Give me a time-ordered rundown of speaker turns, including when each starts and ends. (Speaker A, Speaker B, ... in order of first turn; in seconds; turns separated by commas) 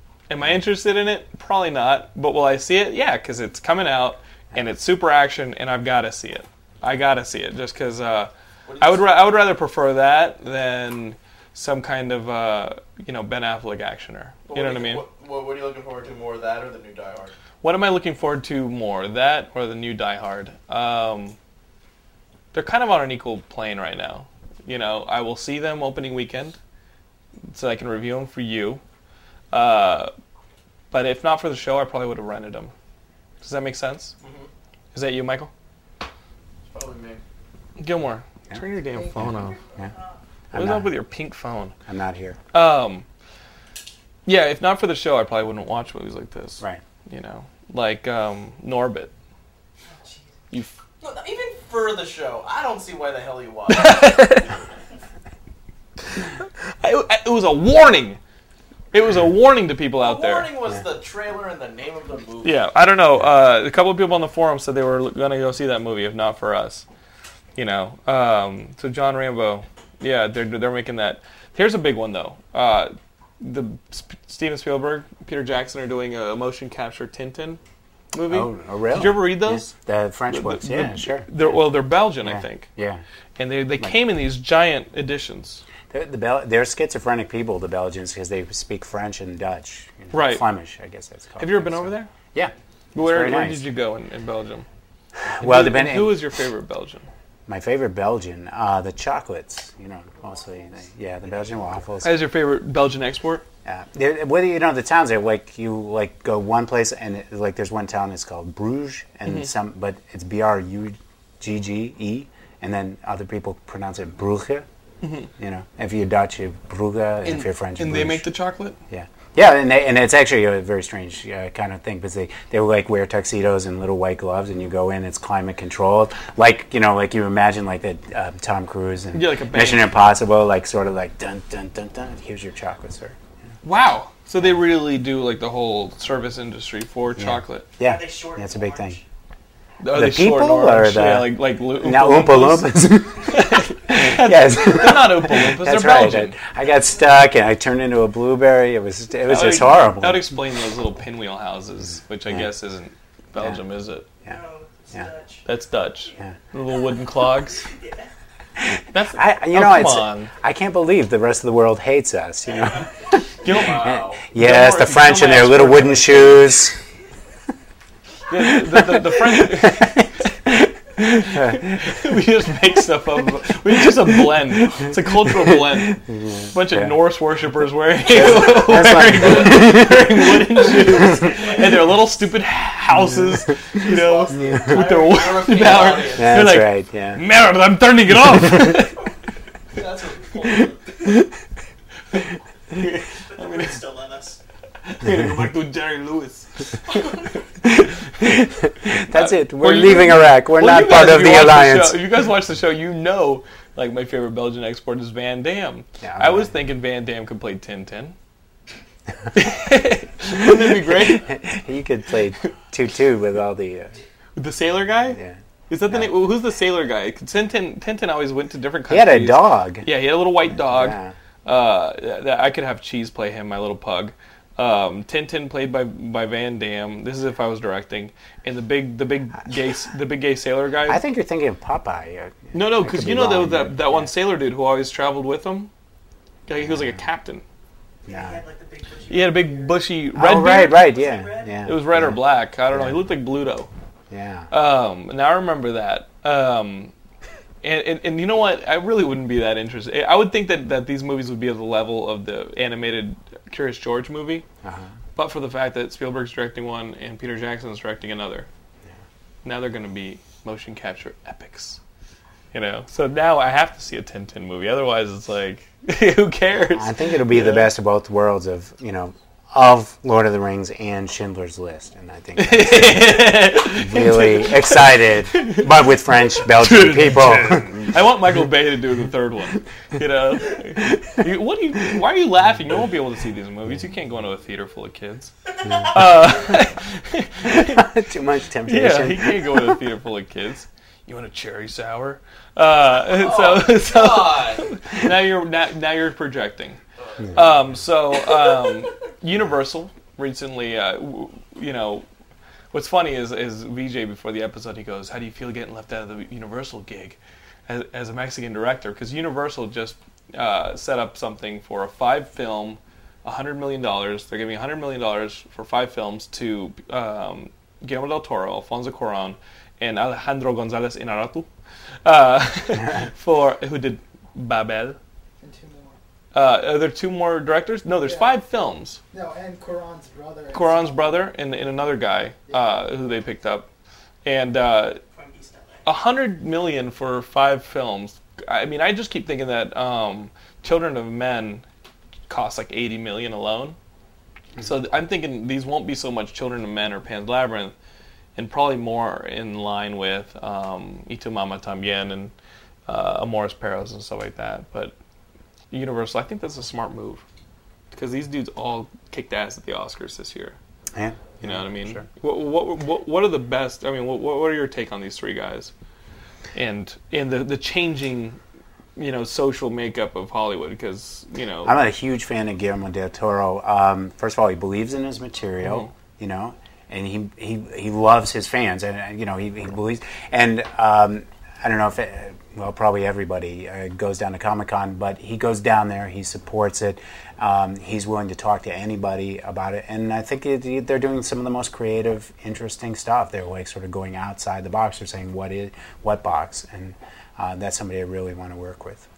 Speaker A: 0.3-15.0, Speaker B: 8.7-9.1, Speaker B: 14.5-17.3, Speaker A: 17.6-21.4, Speaker A: 22.5-26.6, Speaker A: 27.5-28.8, Speaker A: 29.5-30.1, Speaker A: 30.9-32.7, Speaker A: 33.4-34.1, Speaker B: 34.2-34.5, Speaker A: 34.9-35.5, Speaker B: 36.7-37.2, Speaker A: 37.8-39.6, Speaker C: 39.2-39.9, Speaker C: 40.5-40.9, Speaker A: 40.5-41.7, Speaker C: 41.9-42.4, Speaker A: 42.5-43.0, Speaker A: 44.2-49.1, Speaker D: 49.9-50.3, Speaker A: 50.5-50.8, Speaker B: 51.0-54.1, Speaker A: 53.7-54.5, Speaker A: 56.8-58.2, Speaker A: 58.9-60.5, Speaker B: 60.0-62.6, Speaker A: 62.4-66.8, Speaker A: 67.5-77.6, Speaker A: 78.1-79.7, Speaker C: 78.3-81.6, Speaker A: 80.3-82.7, Speaker C: 82.2-83.0, Speaker A: 83.4-85.6, Speaker C: 85.9-93.6, Speaker A: 90.1-90.4, Speaker A: 91.4-92.1, Speaker A: 92.9-94.7, Speaker C: 95.2-96.3, Speaker A: 95.4-97.1, Speaker C: 97.5-102.2, Speaker A: 102.0-103.4, Speaker C: 103.6-114.7, Speaker A: 115.0-115.3, Speaker C: 115.4-118.2, Speaker A: 117.2-118.8, Speaker C: 118.9-133.2, Speaker A: 129.1-129.9, Speaker A: 133.6-137.7, Speaker C: 137.2-139.0, Speaker D: 137.8-139.0, Speaker A: 139.8-146.3, Speaker C: 139.9-150.3, Speaker A: 149.2-154.1, Speaker C: 153.3-153.6, Speaker D: 154.2-155.4, Speaker A: 155.4-157.7, Speaker D: 157.6-158.1, Speaker C: 158.6-163.2, Speaker A: 158.9-160.3, Speaker A: 163.4-166.5, Speaker B: 163.5-164.2, Speaker C: 163.7-166.8, Speaker A: 168.3-176.0, Speaker C: 168.8-170.5, Speaker C: 171.2-171.8, Speaker C: 174.8-177.0, Speaker A: 176.5-189.0, Speaker C: 178.1-181.4, Speaker B: 183.8-186.4, Speaker C: 184.3-184.8, Speaker C: 186.2-187.2, Speaker B: 189.7-191.1, Speaker A: 192.8-193.8, Speaker D: 193.3-194.4, Speaker A: 194.8-197.3, Speaker C: 198.2-202.0, Speaker A: 199.0-208.2, Speaker C: 206.0-206.5, Speaker A: 209.3-211.4, Speaker C: 210.5-213.9, Speaker A: 214.3-231.0, Speaker C: 215.1-215.4, Speaker C: 218.9-219.9, Speaker C: 220.5-221.1, Speaker C: 230.8-234.1, Speaker A: 232.5-235.7, Speaker A: 236.5-237.4, Speaker C: 236.6-237.0, Speaker D: 238.1-239.8, Speaker C: 238.1-238.4, Speaker A: 239.1-240.9, Speaker C: 240.1-242.2, Speaker D: 240.7-241.6, Speaker A: 241.6-243.7, Speaker C: 242.7-243.0, Speaker C: 244.1-244.5, Speaker A: 244.5-246.9, Speaker A: 247.6-254.4, Speaker C: 254.6-254.9, Speaker A: 255.2-258.5, Speaker A: 259.4-261.8, Speaker A: 262.5-267.7, Speaker C: 266.7-278.0, Speaker A: 272.4-275.7, Speaker A: 276.4-287.8, Speaker C: 287.4-289.8, Speaker A: 288.7-296.8, Speaker B: 293.1-294.8, Speaker B: 297.0-297.3, Speaker A: 297.3-302.1, Speaker A: 302.7-321.5, Speaker A: 322.0-325.0, Speaker E: 325.4-325.9, Speaker A: 326.3-329.0, Speaker E: 328.0-328.3, Speaker E: 329.1-331.3, Speaker A: 330.5-333.7, Speaker E: 332.5-332.8, Speaker A: 334.2-335.0, Speaker D: 335.1-335.8, Speaker A: 335.8-341.6, Speaker A: 342.3-343.8, Speaker A: 344.6-347.7, Speaker A: 348.4-352.3, Speaker A: 352.9-354.9, Speaker A: 355.7-357.2, Speaker A: 357.9-360.6, Speaker C: 360.9-362.1, Speaker A: 361.4-365.7, Speaker A: 366.5-368.4, Speaker A: 369.0-371.8, Speaker C: 371.6-399.0, Speaker A: 375.6-375.9